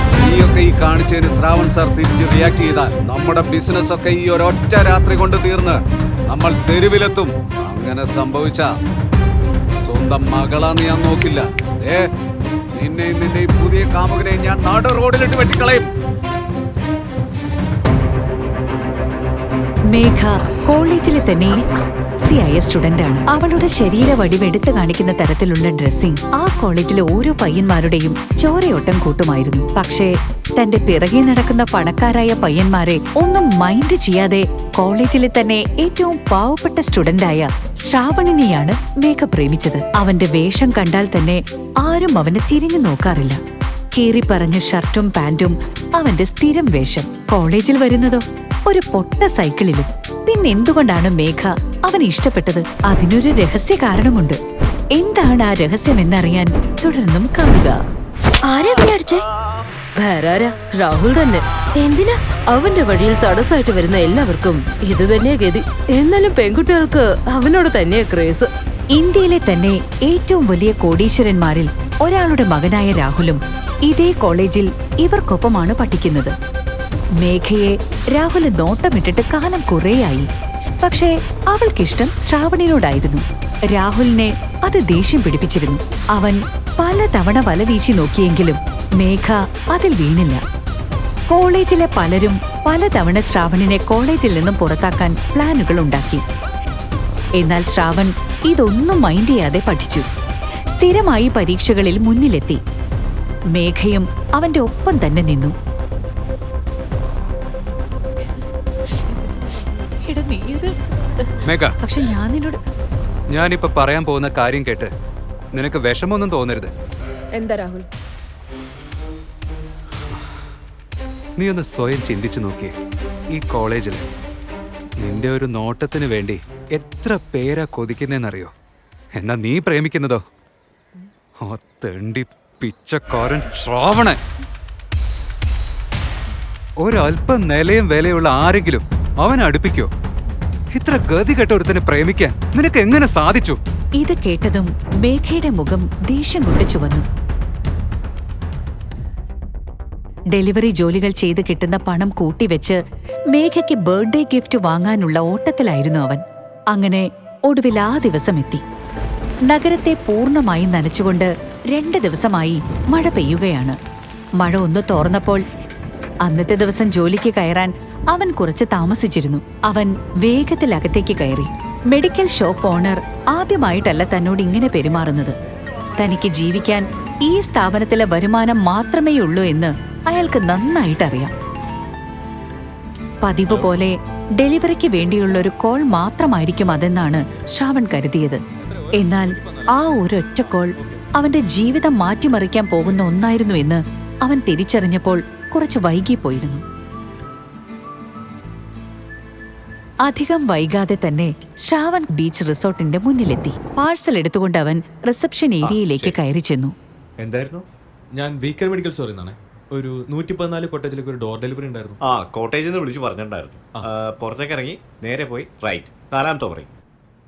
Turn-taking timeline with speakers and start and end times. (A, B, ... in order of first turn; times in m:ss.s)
0:00.2-0:08.7 A
0:09.8-0:12.1 A
0:12.7-0:15.9 A
0:19.9-0:21.6 B
0:22.2-0:43.4 B
0:43.9-0:54.4 B
0:55.0-0:57.8 B
0:58.5-0:59.2 C
1:00.0-1:08.5 C
1:09.0-1:16.3 B
1:17.2-1:20.3 B
1:20.8-1:30.4 B
1:31.3-1:36.2 B
1:37.4-1:40.1 B
1:40.7-1:42.6 B
1:43.5-1:45.6 B
1:49.1-1:49.5 B
1:50.0-1:52.6 B
1:51.4-1:51.7 D
1:53.3-1:54.9 D
1:55.6-1:56.7 D
2:01.4-2:02.7 D
2:03.3-2:04.0 D
2:05.0-2:08.5 D
2:09.2-2:10.2 D
2:11.4-2:14.2 D
2:16.8-2:19.9 D
2:20.7-2:23.6 D
2:24.0-2:27.1 B
2:30.3-2:32.8 B
2:33.3-2:36.2 B
2:36.7-2:38.6 B
2:39.5-2:43.8 B
2:44.4-2:45.4 B
2:46.2-2:55.4 B
2:56.0-3:01.3 B
3:03.2-3:08.4 B
3:08.6-3:10.0 E
3:08.9-3:16.6 B
3:20.0-3:26.7 B
3:25.6-3:26.2 F
3:27.2-3:27.7 F
3:28.1-3:32.0 E
3:32.0-3:36.7 F